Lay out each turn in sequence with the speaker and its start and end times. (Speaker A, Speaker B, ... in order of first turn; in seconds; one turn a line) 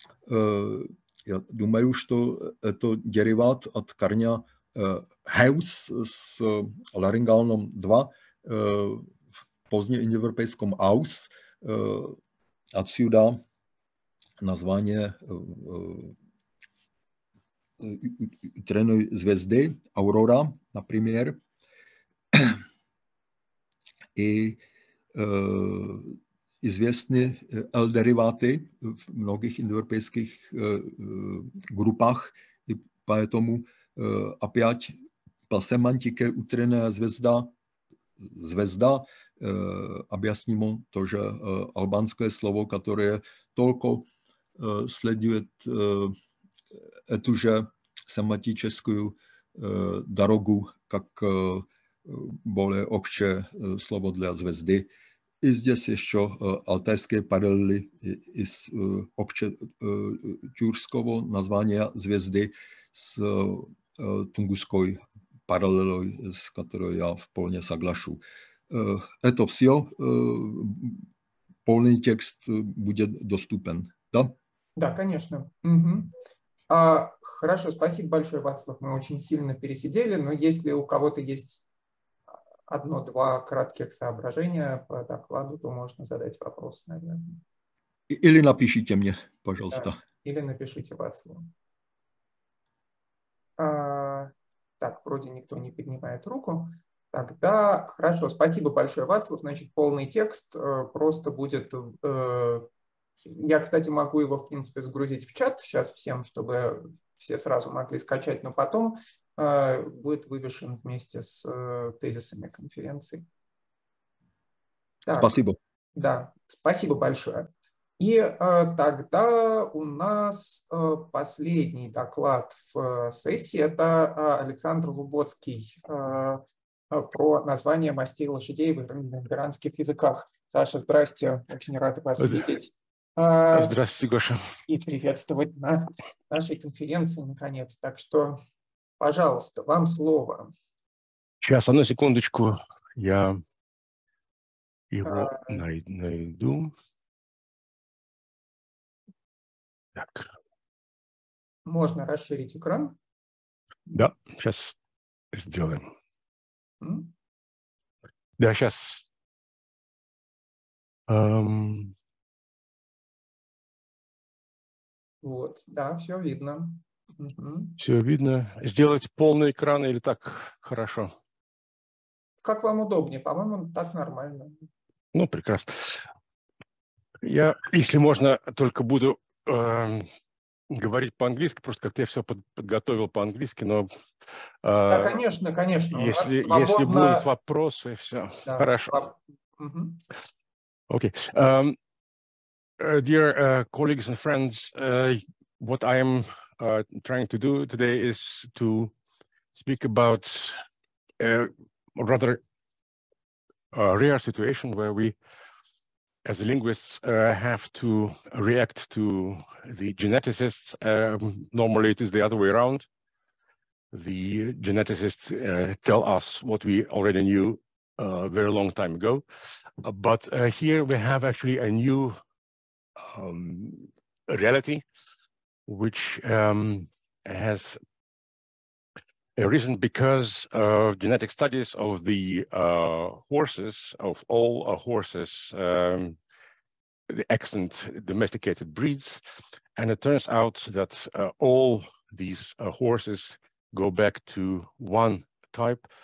Speaker A: 0.3-9.1
Speaker A: 9.7-12.2
Speaker A: 12.7-13.4
Speaker A: 14.4-16.1
Speaker A: 17.8-21.4
Speaker A: 22.3-22.6
Speaker A: 24.1-24.6
Speaker A: 25.1-34.9
Speaker A: 35.5-37.5
Speaker A: 38.2-44.1
Speaker A: 44.6-46.1
Speaker A: 47.1-54.9
Speaker A: 55.4-71.0
Speaker A: 71.7-74.3
Speaker B: 74.8-76.1
Speaker B: 76.7-81.6
Speaker B: 82.7-87.4
Speaker A: 88.1-90.0
Speaker B: 89.7-91.5
Speaker B: 93.6-102.7
Speaker B: 103.2-113.2
Speaker B: 115.0-115.3
Speaker A: 115.2-115.6
Speaker B: 115.9-133.8
Speaker C: 132.2-132.5
Speaker C: 133.5-134.6
Speaker B: 134.7-138.4
Speaker B: 139.0-140.5
Speaker C: 141.4-143.4
Speaker C: 144.9-146.7
Speaker B: 145.0-145.6
Speaker C: 149.9-150.3
Speaker B: 151.7-153.0
Speaker C: 153.9-154.8
Speaker C: 155.3-155.9
Speaker B: 156.8-157.1
Speaker C: 158.4-159.1
Speaker C: 161.1-161.9
Speaker B: 165.2-167.8
Speaker C: 167.8-171.1
Speaker B: 172.4-174.7
Speaker C: 175.1-176.1
Speaker C: 177.2-180.1
Speaker C: 180.7-185.2
Speaker B: 184.9-187.3
Speaker C: 185.9-189.1
Speaker B: 188.4-190.0
Speaker C: 190.9-191.8
Speaker C: 192.8-198.9
Speaker C: 199.5-200.6
Speaker C: 201.2-202.4
Speaker C: 203.7-205.1
Speaker C: 206.2-212.9
Speaker C: 213.9-219.2
Speaker C: 219.8-222.2
Speaker C: 223.0-224.8
Speaker C: 225.7-227.8
Speaker C: 229.4-236.2
Speaker C: 237.1-239.2
Speaker C: 239.8-245.9